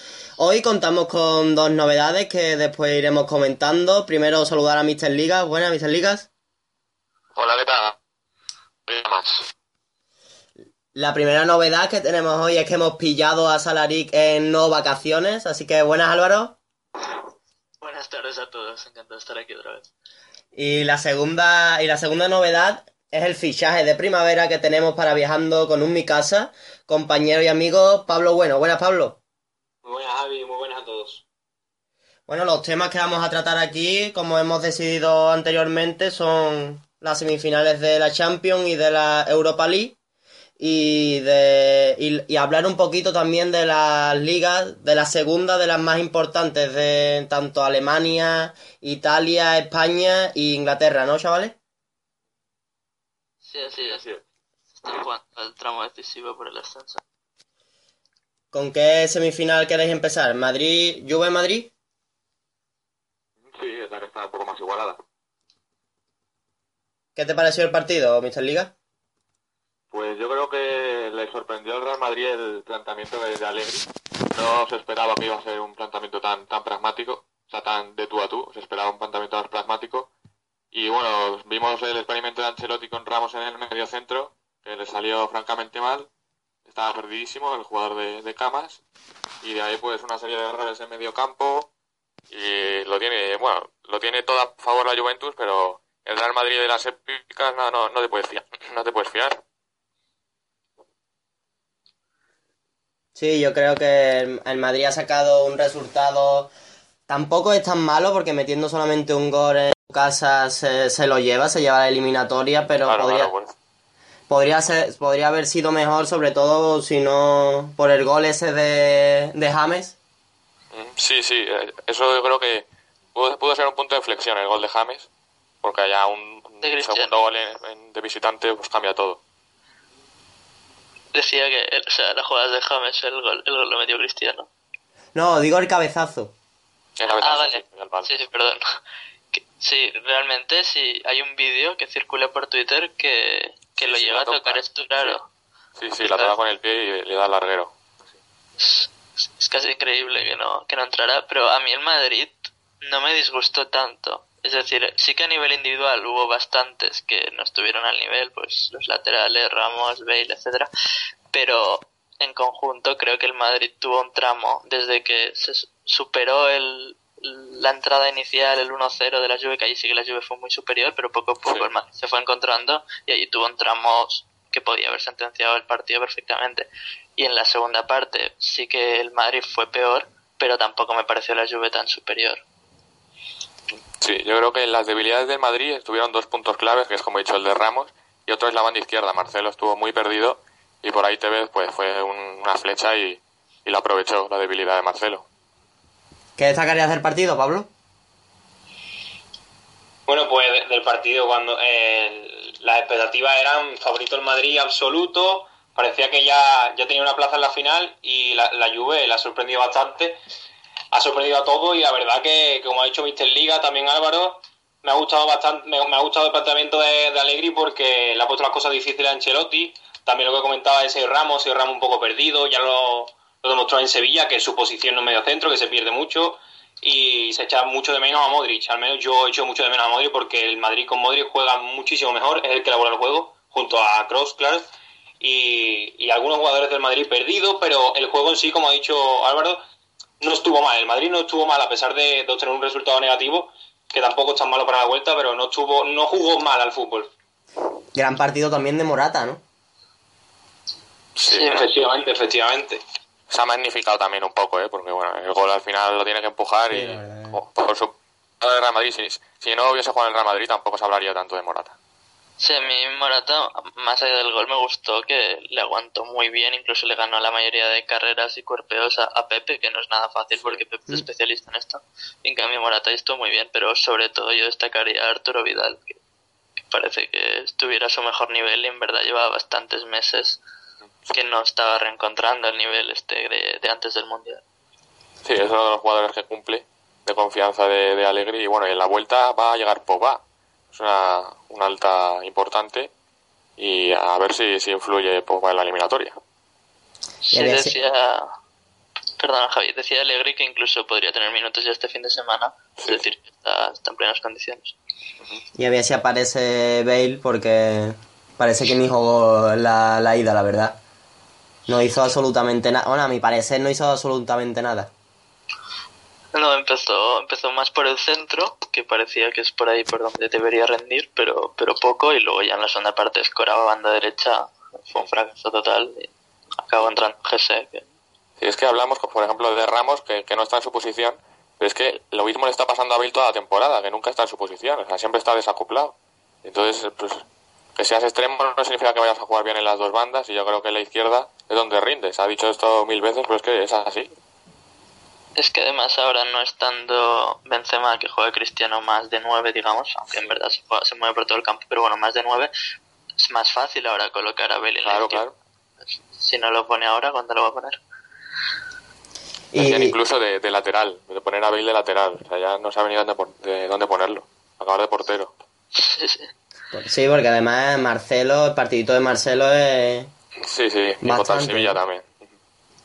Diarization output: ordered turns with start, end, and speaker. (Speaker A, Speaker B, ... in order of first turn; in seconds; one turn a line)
Speaker A: 0.4-6.3
Speaker B: 7.4-8.0
Speaker B: 8.9-9.5
Speaker A: 10.9-16.6
Speaker C: 17.8-19.9
Speaker A: 20.6-29.2
Speaker D: 29.8-31.2
Speaker A: 32.3-40.0
Speaker A: 40.6-51.6
Speaker C: 53.5-54.0
Speaker B: 53.6-54.2
Speaker C: 54.8-57.0
Speaker A: 58.5-61.7
Speaker B: 63.4-65.0
Speaker A: 67.2-68.7
Speaker B: 69.9-80.1
Speaker B: 80.7-86.1
Speaker B: 86.7-88.8
Speaker B: 89.4-91.7
Speaker B: 92.3-99.4
Speaker A: 103.2-106.5
Speaker A: 107.1-113.3
Speaker B: 112.8-113.5
Speaker A: 114.3-120.0
Speaker B: 120.7-125.1
Speaker B: 125.6-129.2
Speaker C: 126.6-127.1
Speaker C: 131.1-134.5
Speaker A: 135.2-136.3
Speaker B: 137.0-138.1
Speaker C: 137.2-138.6
Speaker C: 139.3-145.3
Speaker B: 143.8-145.2
Speaker B: 145.8-147.7
Speaker C: 146.0-146.3
Speaker C: 148.6-160.7
Speaker C: 161.3-182.4
Speaker B: 184.0-195.2
Speaker A: 196.4-197.7
Speaker D: 200.1-210.2
Speaker D: 210.9-234.6
Speaker D: 235.2-239.6
Speaker D: 240.2-247.1
Speaker A: 247.9-249.4
Speaker B: 251.2-251.6
Speaker C: 251.3-251.7
Speaker D: 251.4-252.8
Speaker B: 253.3-261.8
Speaker A: 256.7-257.4
Speaker C: 262.4-276.0
Speaker B: 270.4-270.6
Speaker C: 276.7-280.4
Speaker C: 281.1-284.4
Speaker B: 285.2-290.2
Speaker B: 290.7-292.9
Speaker B: 293.6-296.2
Speaker C: 297.2-298.3
Speaker A: 297.3-297.8
Speaker C: 299.2-304.8
Speaker B: 302.8-303.1
Speaker A: 305.6-310.8
Speaker A: 311.7-314.9
Speaker C: 316.3-326.1
Speaker C: 326.6-327.9
Speaker B: 328.4-337.2
Speaker B: 337.8-344.1
Speaker C: 345.4-352.5
Speaker C: 353.2-355.2
Speaker B: 354.9-355.3
Speaker C: 356.1-357.8
Speaker A: 359.5-360.0
Speaker B: 359.6-365.3
Speaker C: 365.8-366.3
Speaker A: 366.7-370.1
Speaker B: 370.4-372.3
Speaker A: 371.0-371.8